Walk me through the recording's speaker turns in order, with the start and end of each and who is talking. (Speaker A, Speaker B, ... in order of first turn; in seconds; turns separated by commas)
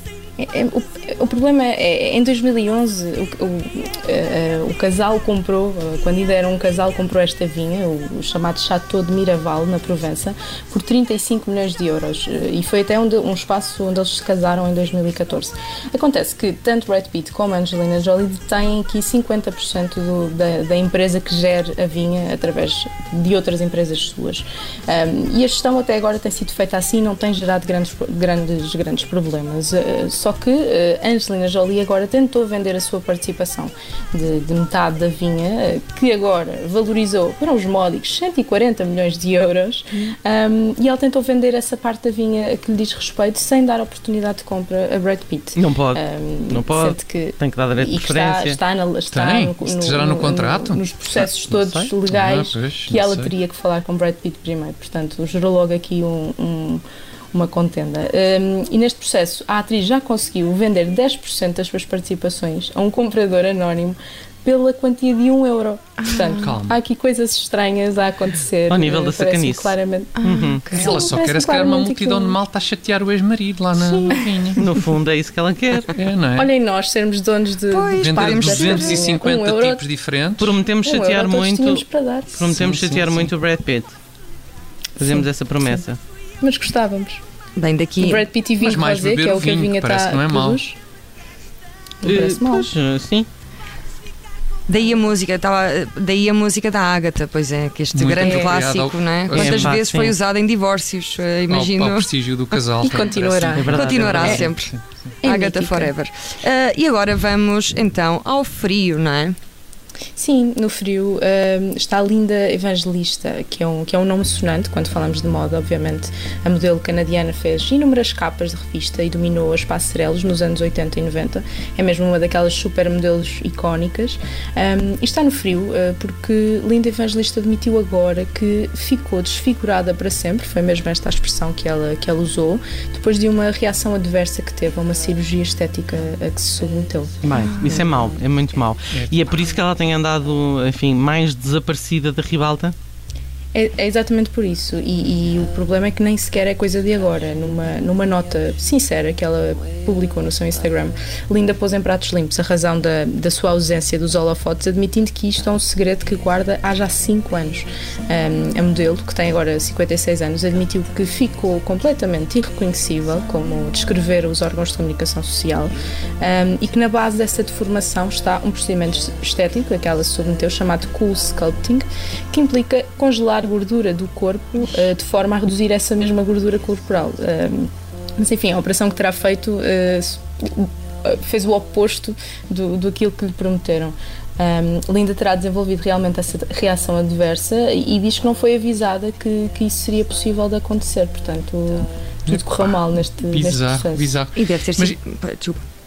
Speaker A: 0.4-72.4, Speaker B: 45.6-48.6, Speaker C: 49.1-53.3, Speaker D: 66.0-66.4, Speaker C: 66.4-66.8, Speaker B: 68.7-70.7, Speaker D: 70.2-71.1, Speaker C: 70.7-74.6, Speaker B: 74.6-75.9, Speaker C: 75.9-76.5, Speaker A: 76.4-79.8, Speaker D: 77.7-79.1, Speaker C: 78.0-80.6, Speaker B: 80.4-84.0, Speaker A: 80.8-82.4, Speaker C: 82.5-83.3, Speaker B: 85.0-86.0, Speaker A: 85.0-85.8, Speaker A: 86.4-87.2, Speaker D: 87.6-88.3, Speaker A: 88.0-90.8, Speaker C: 88.6-90.6, Speaker A: 92.0-92.7, Speaker B: 92.0-93.3, Speaker D: 94.7-102.1, Speaker C: 97.9-99.8, Speaker A: 98.2-98.6, Speaker B: 99.3-100.2, Speaker C: 101.5-104.8, Speaker A: 102.8-103.7, Speaker B: 103.6-104.5, Speaker D: 103.7-109.4, Speaker A: 105.2-105.9, Speaker A: 110.2-137.8, Speaker B: 137.2-142.8, Speaker C: 138.9-139.3, Speaker A: 143.5-194.2, Speaker C: 192.3-195.0, Speaker D: 194.3-195.6